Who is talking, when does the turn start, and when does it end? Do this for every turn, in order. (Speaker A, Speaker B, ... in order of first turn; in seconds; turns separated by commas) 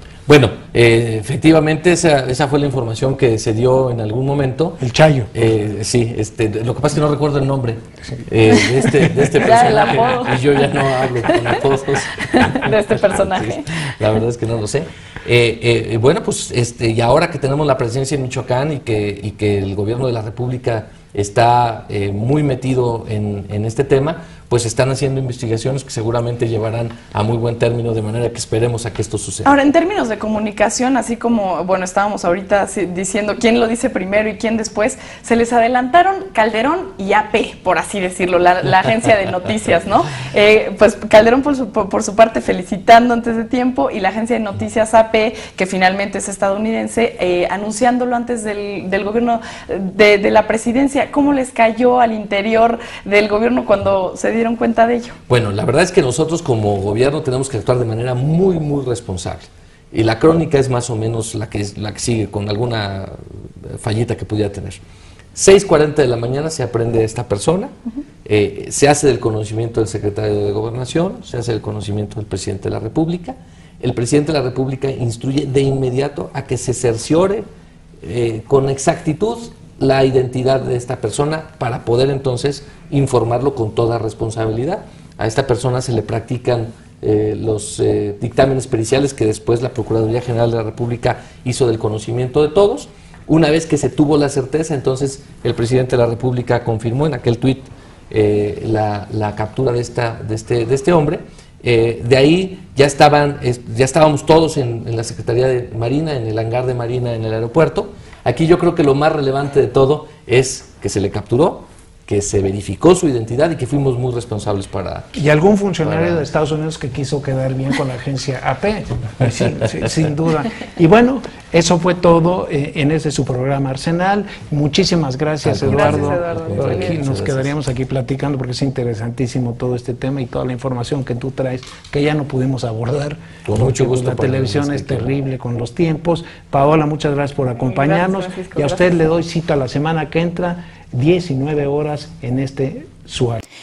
Speaker A: 0.3-4.8, Speaker B: 4.8-5.3, Speaker A: 5.3-29.5, Speaker C: 9.3-10.6, Speaker C: 12.2-13.6, Speaker C: 29.5-55.2, Speaker A: 55.3-64.8, Speaker A: 65.3-67.7, Speaker A: 68.2-77.5, Speaker A: 78.0-115.2, Speaker B: 115.1-143.4, Speaker A: 115.8-116.2, Speaker A: 125.4-127.5, Speaker C: 125.7-127.0, Speaker A: 133.4-135.1, Speaker C: 137.6-138.8